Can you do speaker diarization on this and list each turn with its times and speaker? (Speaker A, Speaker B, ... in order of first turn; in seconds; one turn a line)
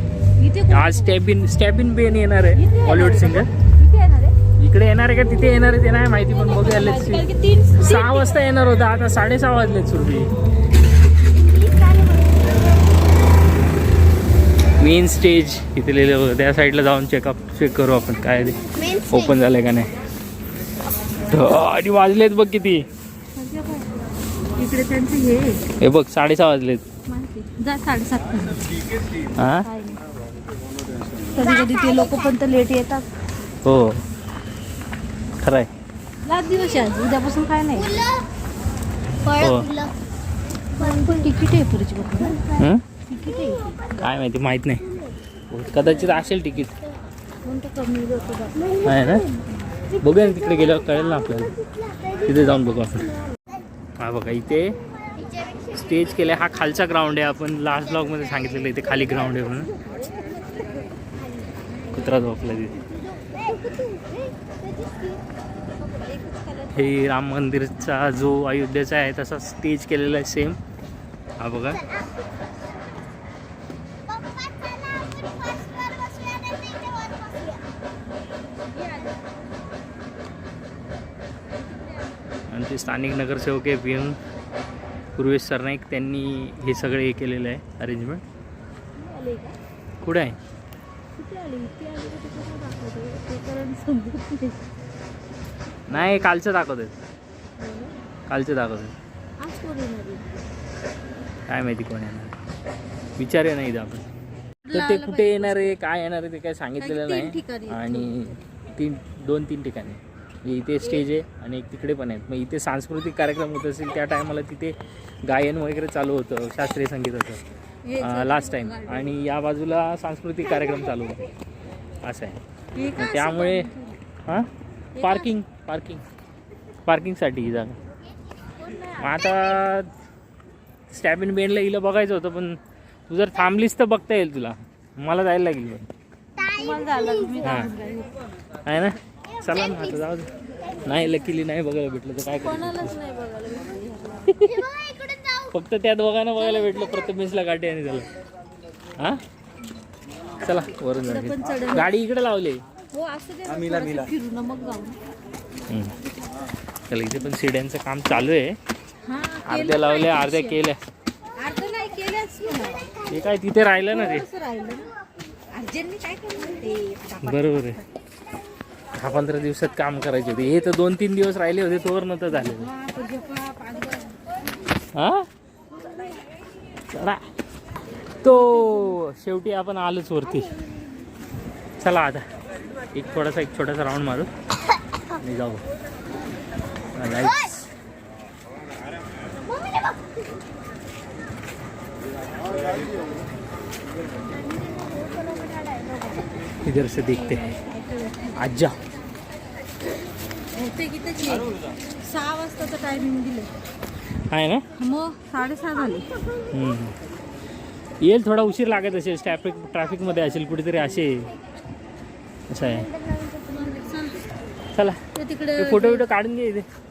Speaker A: 0.4-1.1
Speaker B: 0.7-3.5
Speaker A: 2.5-4.4
Speaker B: 4.6-7.2
Speaker A: 6.3-8.4
Speaker B: 7.8-10.3
Speaker A: 11.4-12.3
Speaker B: 14.8-18.6
Speaker C: 18.7-19.4
Speaker B: 19.1-19.9
Speaker B: 21.3-22.9
Speaker A: 23.4-23.9
Speaker A: 24.6-25.6
Speaker B: 25.8-26.9
Speaker A: 27.1-28.6
Speaker B: 29.4-29.7
Speaker A: 29.6-30.0
Speaker A: 31.3-33.1
Speaker C: 31.4-32.4
Speaker B: 33.6-34.0
Speaker B: 35.4-35.7
Speaker A: 36.2-37.9
Speaker C: 37.7-38.3
Speaker C: 39.2-39.9
Speaker B: 39.4-39.7
Speaker A: 40.8-42.4
Speaker B: 42.6-42.8
Speaker A: 43.1-44.0
Speaker B: 44.0-44.8
Speaker B: 45.5-46.7
Speaker A: 47.4-48.6
Speaker B: 48.8-49.2
Speaker B: 50.0-51.5
Speaker B: 52.2-53.1
Speaker B: 54.0-54.8
Speaker C: 55.1-56.4
Speaker B: 55.7-59.7
Speaker A: 59.8-60.8
Speaker B: 61.9-62.8
Speaker A: 63.2-65.2
Speaker A: 65.8-67.1
Speaker B: 66.7-70.6
Speaker B: 71.4-71.8
Speaker C: 71.7-72.2
Speaker C: 74.1-77.7
Speaker B: 82.5-84.2
Speaker B: 85.2-88.2
Speaker A: 89.0-89.6
Speaker B: 90.0-90.4
Speaker A: 91.2-94.6
Speaker B: 95.9-97.0
Speaker A: 97.6-97.9
Speaker B: 98.3-99.0
Speaker A: 99.4-100.2
Speaker B: 101.5-102.3
Speaker B: 103.2-104.1
Speaker A: 104.7-105.8
Speaker B: 104.7-117.4
Speaker A: 106.8-108.4
Speaker A: 117.8-119.1
Speaker B: 118.0-121.2
Speaker B: 122.0-122.4
Speaker A: 122.8-124.0
Speaker B: 123.0-123.7
Speaker A: 125.0-125.3
Speaker B: 125.0-126.0
Speaker B: 126.9-127.8
Speaker A: 128.6-129.4
Speaker B: 129.0-129.9
Speaker B: 130.9-135.9
Speaker C: 136.4-137.6
Speaker A: 136.6-138.1
Speaker B: 137.4-137.7
Speaker B: 138.7-140.3
Speaker C: 139.3-140.9
Speaker B: 140.8-142.9
Speaker A: 142.4-144.6
Speaker C: 144.4-145.6
Speaker B: 145.5-148.1
Speaker B: 150.4-152.6
Speaker A: 151.0-151.9
Speaker A: 152.9-155.0
Speaker B: 155.7-155.9
Speaker B: 156.9-158.6
Speaker A: 159.1-160.6
Speaker B: 159.5-160.8
Speaker A: 161.4-162.9
Speaker B: 163.1-164.2
Speaker A: 163.8-164.9
Speaker A: 165.5-167.8
Speaker B: 167.2-167.8
Speaker B: 168.9-172.7
Speaker A: 172.5-174.2
Speaker B: 174.9-175.3
Speaker B: 176.9-177.2
Speaker B: 178.2-180.5
Speaker B: 181.8-182.2
Speaker B: 182.9-184.3
Speaker B: 185.1-185.6
Speaker B: 186.9-187.7
Speaker C: 187.2-187.6
Speaker C: 189.5-190.1
Speaker B: 196.6-197.4
Speaker A: 197.2-198.4
Speaker B: 198.4-198.8
Speaker A: 200.6-203.5
Speaker B: 204.3-204.7
Speaker A: 204.8-206.1
Speaker B: 206.5-206.9
Speaker B: 208.0-211.3
Speaker B: 212.5-212.9
Speaker C: 212.9-213.7
Speaker A: 213.6-214.2
Speaker A: 215.1-216.1
Speaker B: 215.6-216.7